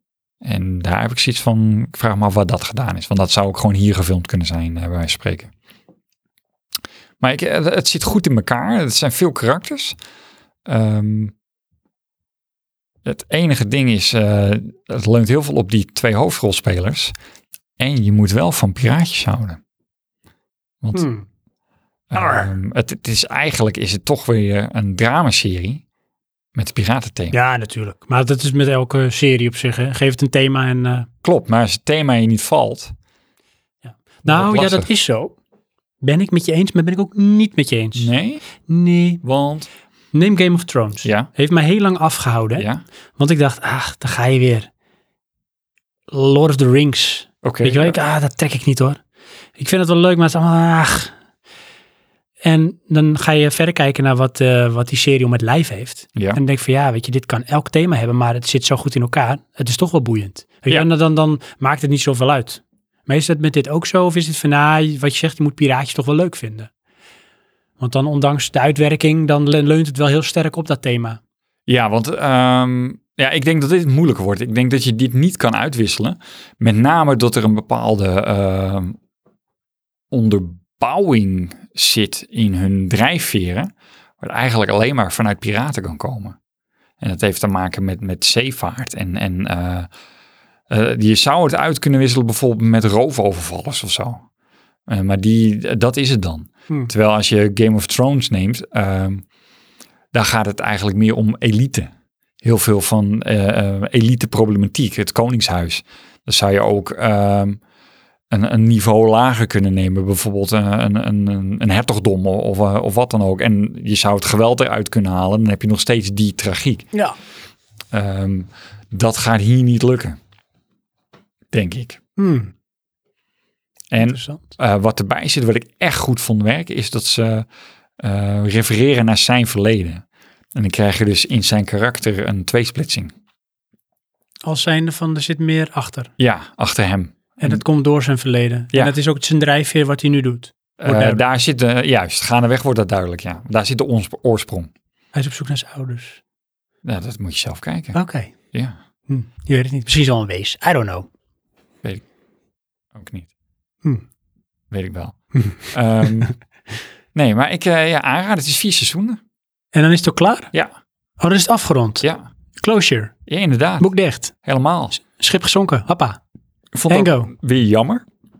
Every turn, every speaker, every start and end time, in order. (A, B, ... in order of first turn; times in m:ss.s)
0:00.4-0:05.5 A
0:07.2-0:10.0 A
0:10.6-0:11.3 A
0:13.0-0:17.1 A
0:17.8-0:19.6 A
0:20.9-0:21.2 B
0:22.1-0:25.8 A
0:22.1-0:22.5 B
0:26.5-0:27.3 A
0:27.3-0:31.1 B
0:31.2-0:32.9 A
0:33.8-0:35.3 B
0:34.2-0:34.9 A
0:36.0-0:38.1 B
0:37.9-0:38.4 A
0:38.6-0:39.2 B
0:39.2-0:39.7 A
0:40.1-0:44.7 B
0:41.0-0:41.3 A
0:42.6-0:42.8 A
0:46.1-0:49.0 B
0:47.4-0:48.0 A
0:49.6-0:51.1 B
0:52.4-1:06.7 B
1:07.8-1:11.2 B
1:11.7-1:19.0 A
1:20.1-1:26.4 A
1:27.0-1:29.9 A
1:30.7-1:34.2 A
1:34.9-1:39.2 A
1:40.1-1:41.9 A
1:42.4-1:47.6 A
1:48.3-1:56.9 A
1:57.9-2:00.2 A
2:01.5-2:02.0 A
2:02.2-2:02.5 B
2:03.9-2:07.4 A
2:04.0-2:04.5 B
2:08.0-2:10.0 A
2:10.5-2:13.1 A
2:14.4-2:16.1 B
2:16.2-2:17.6 A
2:17.4-2:21.2 B
2:20.8-2:24.7 A
2:25.1-2:26.2 B
2:26.8-2:28.0 A
2:27.9-2:28.3 B
2:29.1-2:31.1 B
2:32.9-2:33.3 A
2:34.7-2:36.3 A
2:35.3-2:36.3 B
2:37.1-2:39.2 A
2:39.7-2:40.5 B
2:41.2-2:42.0 B
2:42.6-2:43.1 B
2:43.3-2:43.9 A
2:43.8-2:44.3 B
2:44.4-2:45.0 A
2:45.0-2:46.2 B
2:46.7-2:48.0 A
2:46.9-2:47.3 B